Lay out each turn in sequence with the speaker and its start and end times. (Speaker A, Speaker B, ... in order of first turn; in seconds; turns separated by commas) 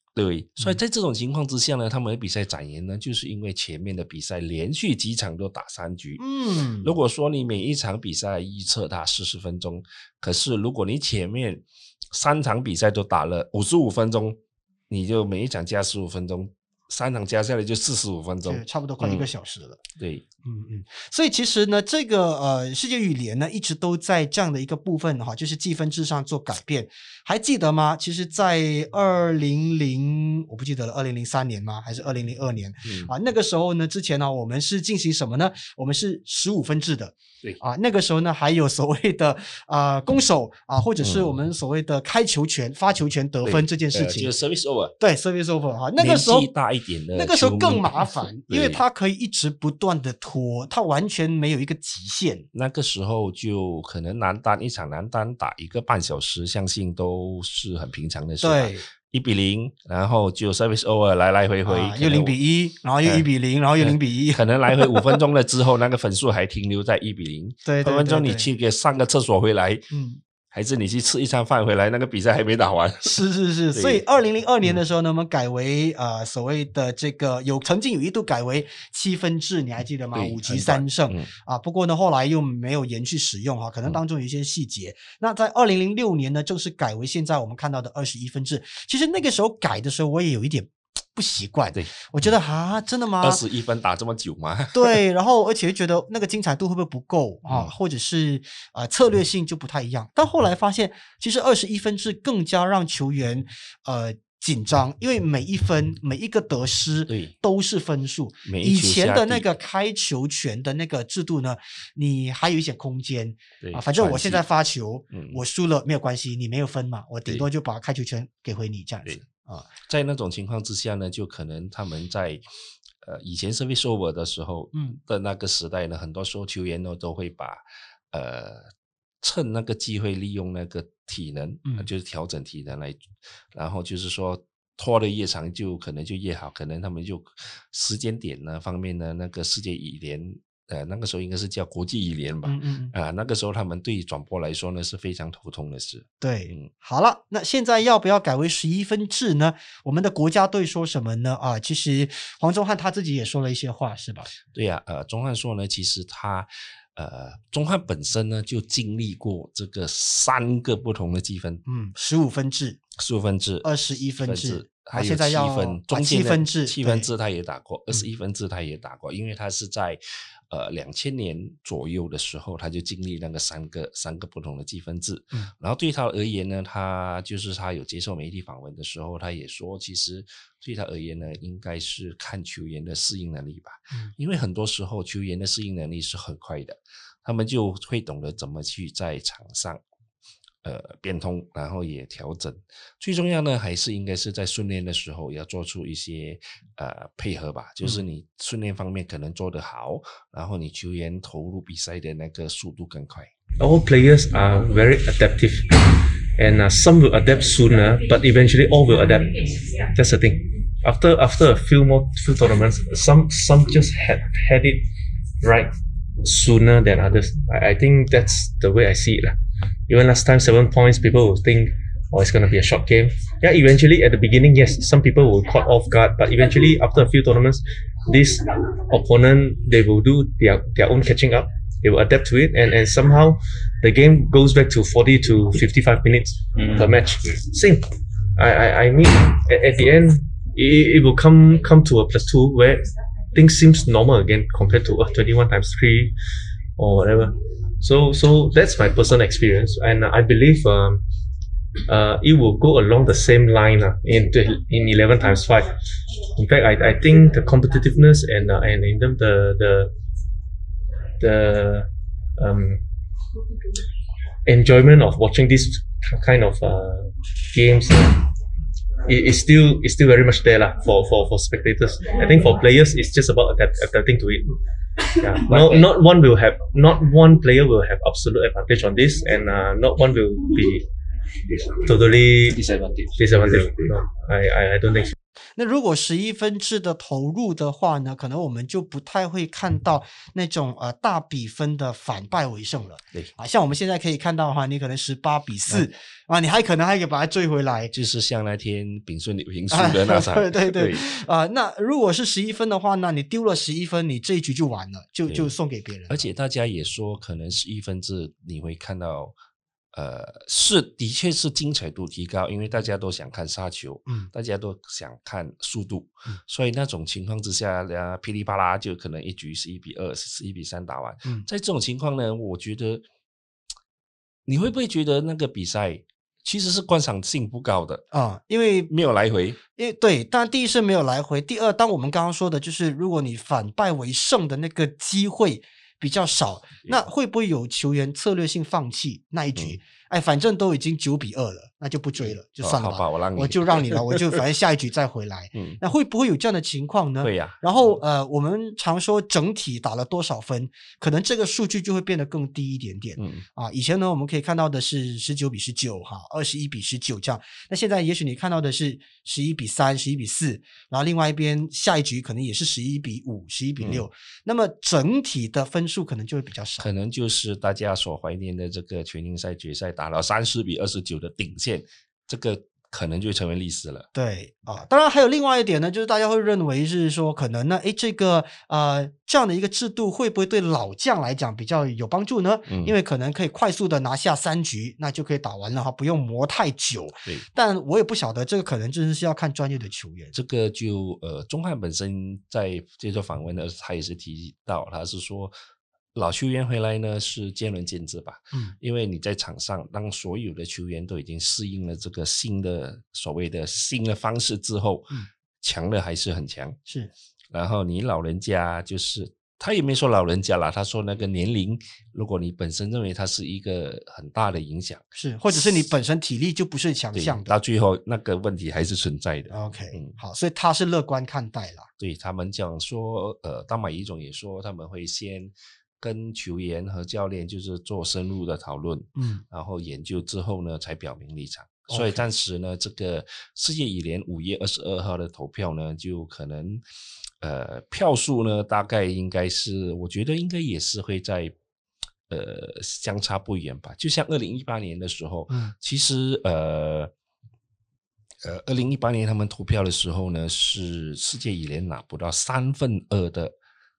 Speaker A: 0.1-6.2, Speaker B: 6.2-6.9, Speaker A: 6.8-14.4, Speaker A: 14.9-19.3, Speaker B: 18.4-19.8, Speaker A: 20.0-20.2, Speaker B: 20.4-44.3, Speaker A: 32.9-33.1, Speaker A: 41.0-41.4, Speaker A: 43.4-45.0, Speaker B: 45.0-46.5, Speaker A: 46.0-48.8, Speaker B: 47.1-52.5, Speaker A: 52.5-62.4, Speaker B: 58.4-58.9, Speaker B: 61.7-65.2, Speaker A: 63.8-69.9, Speaker B: 67.7-68.5, Speaker B: 69.9-70.2, Speaker A: 70.5-73.2, Speaker B: 73.0-93.4, Speaker A: 73.7-74.0, Speaker A: 80.1-81.3, Speaker A: 93.2-95.0, Speaker B: 94.7-119.7, Speaker A: 97.5-97.7, Speaker A: 107.1-107.3, Speaker A: 108.5-109.5, Speaker A: 113.6-114.4, Speaker A: 115.1-115.4, Speaker A: 119.9-122.5, Speaker A: 123.0-146.7, Speaker B: 142.4-142.9, Speaker B: 146.2-154.3, Speaker A: 154.5-161.6, Speaker B: 161.7-162.8, Speaker A: 163.0-170.0, Speaker B: 163.6-167.1, Speaker A: 170.5-189.8, Speaker A: 190.6-203.3, Speaker C: 203.6-214.9, Speaker C: 215.4-219.4, Speaker C: 219.9-246.1, Speaker C: 246.8-251.0, Speaker C: 251.9-259.9, Speaker C: 261.2-262.8, Speaker C: 264.4-268.3, Speaker C: 269.1-274.5, Speaker C: 275.1-280.9, Speaker A: 275.5-275.8, Speaker C: 281.7-285.1, Speaker A: 282.7-283.0, Speaker B: 285.6-297.9, Speaker A: 297.9-301.1, Speaker B: 299.7-306.2, Speaker A: 306.1-309.3, Speaker A: 309.9-323.0, Speaker A: 324.5-328.1, Speaker B: 328.1-328.9, Speaker A: 328.9-329.6, Speaker B: 329.8-366.9, Speaker A: 342.2-344.4, Speaker A: 347.2-347.6, Speaker A: 353.2-353.5, Speaker A: 363.8-364.1, Speaker A: 366.8-374.1, Speaker B: 374.1-390.3, Speaker A: 382.7-382.9, Speaker A: 390.4-395.5, Speaker A: 396.1-406.8, Speaker A: 407.5-415.6, Speaker B: 415.1-417.6, Speaker A: 417.1-420.1, Speaker B: 419.5-421.9, Speaker A: 422.0-436.8, Speaker B: 429.1-429.4, Speaker B: 431.9-432.2, Speaker A: 437.4-441.5, Speaker A: 442.3-447.1, Speaker A: 448.4-453.6